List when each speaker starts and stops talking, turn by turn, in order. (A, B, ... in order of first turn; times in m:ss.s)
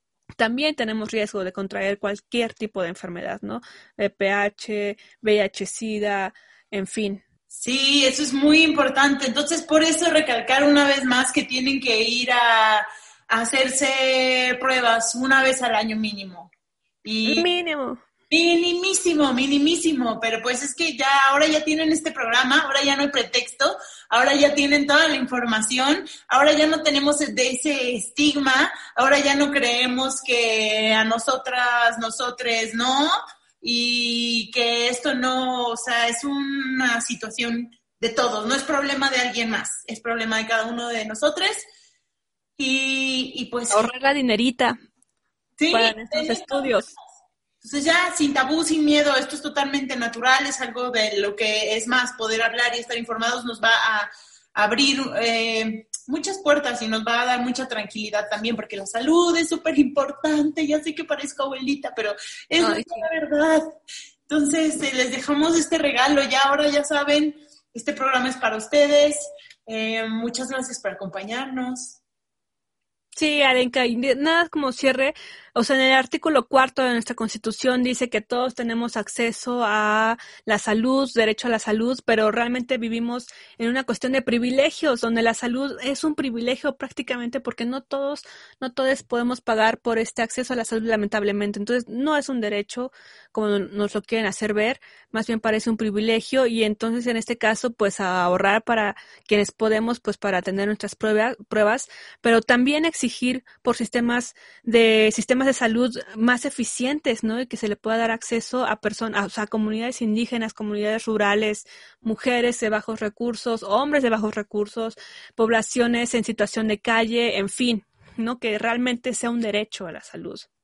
0:00.4-0:07.2 A
0:07.5-0:16.5 B
0:17.0-0:17.5 B
0:17.2-0:18.0 A
0:18.3-0:41.7 B
0:42.6-0:43.9 B
0:43.7-0:44.8 A
0:45.6-0:47.0 B
0:45.7-0:46.9 A
0:47.6-1:03.6 B
1:02.6-1:03.1 A
1:04.3-1:12.0 B
1:13.2-2:00.4 A